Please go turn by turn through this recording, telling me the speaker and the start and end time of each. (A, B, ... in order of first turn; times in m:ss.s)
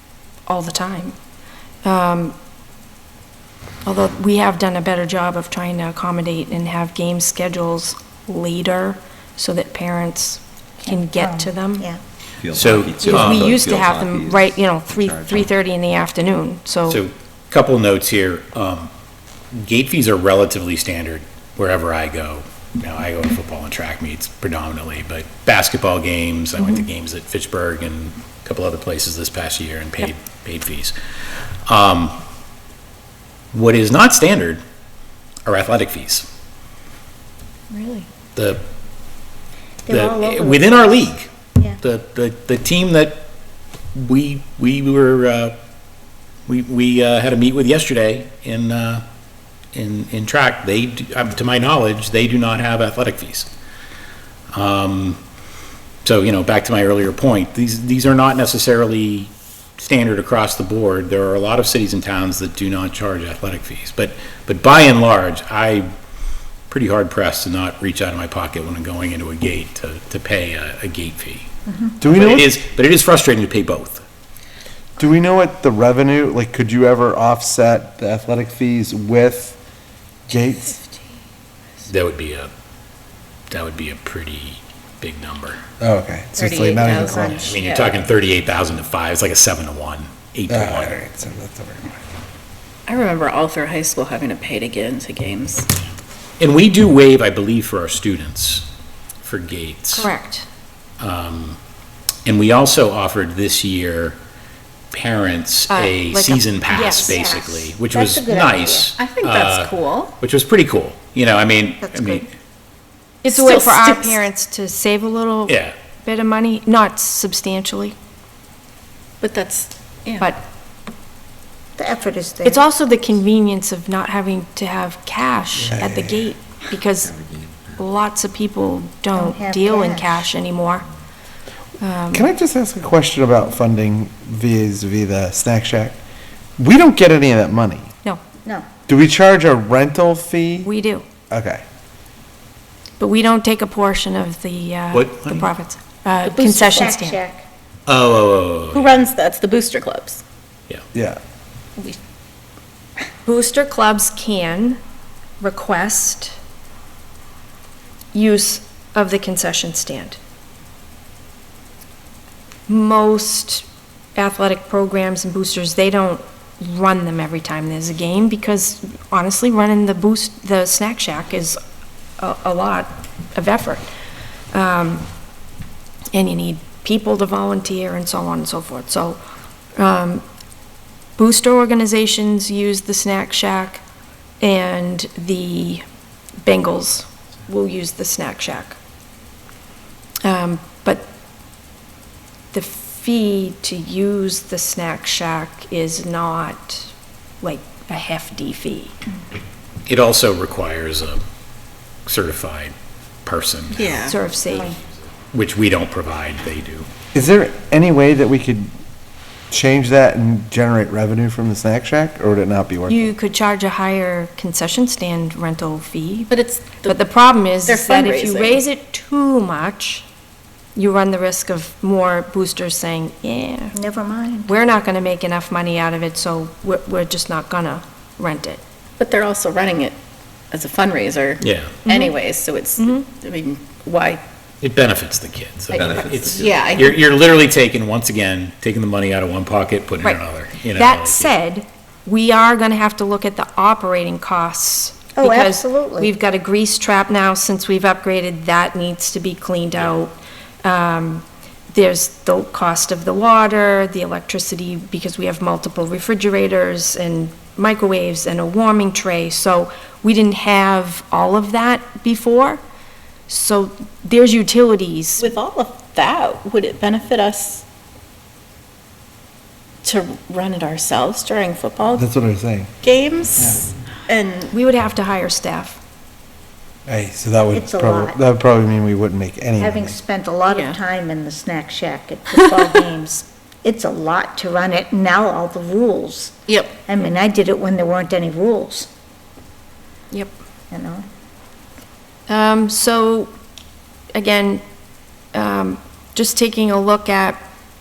0:00.5-0:01.2 A
0:01.8-0:02.3 A
0:03.8-0:11.9 A
0:10.8-0:12.0 B
0:12.4-0:15.5 C
0:12.5-0:13.5 D
0:13.0-0:17.0 A
0:16.9-0:18.9 D
0:19.5-0:31.0 D
0:31.7-0:32.2 D
0:33.5-0:34.6 D
0:35.5-0:36.3 D
0:38.4-0:38.6 D
0:39.9-0:41.8 B
0:39.9-0:41.3 D
0:41.8-0:43.2 D
0:44.0-0:45.6 D
0:46.5-0:49.0 D
0:49.7-0:53.5 D
0:54.5-0:55.2 D
0:56.0-1:05.9 D
1:06.7-1:11.5 D
1:11.7-1:12.0 B
1:12.0-1:12.6 E
1:12.0-1:14.0 D
1:15.0-1:19.6 E
1:20.3-1:20.8 E
1:21.9-1:22.5 D
1:23.5-1:25.6 D
1:25.8-1:27.6 E
1:26.4-1:28.0 F
1:27.1-1:30.9 D
1:30.5-1:32.0 E
1:32.9-1:35.7 F
1:36.4-1:38.7 D
1:39.2-1:40.1 D
1:39.9-1:40.5 A
1:41.0-1:41.6 D
1:42.2-1:44.2 D
1:44.9-1:52.3 D
1:45.7-1:47.2 A
1:46.7-1:48.9 B
1:49.0-1:50.2 F
1:51.8-1:52.2 B
1:53.2-1:58.0 A
1:53.3-1:54.2 F
1:55.5-1:55.8 D
1:59.2-2:00.4 F
2:01.8-2:02.6 B
2:02.4-2:07.2 A
2:05.6-2:06.3 E
2:07.2-2:07.7 C
2:07.8-2:10.8 A
2:09.1-2:10.3 B
2:11.8-2:12.2 A
2:12.1-2:16.0 E
2:16.6-2:17.9 E
2:18.9-2:20.7 E
2:20.6-2:21.1 A
2:21.3-2:21.6 E
2:23.0-2:27.2 A
2:24.9-2:25.5 D
2:26.2-2:27.0 F
2:26.7-2:27.5 B
2:27.9-2:29.0 D
2:28.7-2:30.2 F
2:30.9-2:31.2 E
2:33.3-2:34.8 A
2:35.4-2:36.4 A
2:38.1-2:40.2 A
2:42.7-2:51.6 A
2:52.2-2:53.9 A
2:54.5-2:55.1 A
2:56.1-2:59.2 A
2:59.8-3:00.2 A
3:01.2-3:03.8 A
3:04.4-3:05.8 A
3:06.4-3:08.8 A
3:10.2-3:11.0 A
3:12.5-3:18.9 A
3:19.9-3:21.2 D
3:22.1-3:26.9 D
3:23.7-3:24.2 F
3:24.1-3:24.8 A
3:27.1-3:28.7 E
3:29.5-3:33.1 E
3:32.9-3:36.3 A
3:36.3-3:37.0 F
3:36.8-3:40.0 A
3:37.6-3:38.6 F
3:40.8-3:43.8 A
3:43.8-3:44.5 B
3:44.5-3:48.6 A
3:49.0-3:50.0 F
3:50.5-3:54.2 F
3:51.4-3:51.8 D
3:51.9-3:52.2 A
3:52.8-3:53.1 A
3:54.6-4:01.3 D
3:55.7-3:57.0 C
3:56.4-3:57.0 F
4:00.7-4:22.6 A
4:05.2-4:06.1 B
4:23.3-4:25.3 A
4:25.2-4:27.6 F
4:29.8-4:32.0 F
4:32.0-4:32.7 E
4:32.8-4:34.6 F
4:34.5-4:35.8 A
4:36.9-4:40.0 E
4:37.5-4:38.2 B
4:39.6-4:48.9 B
4:40.5-4:40.8 F
4:42.3-4:42.8 F
4:46.5-4:46.8 F
4:50.7-4:51.0 B
4:52.3-4:53.3 A
4:54.2-4:54.6 A
4:55.3-4:57.4 A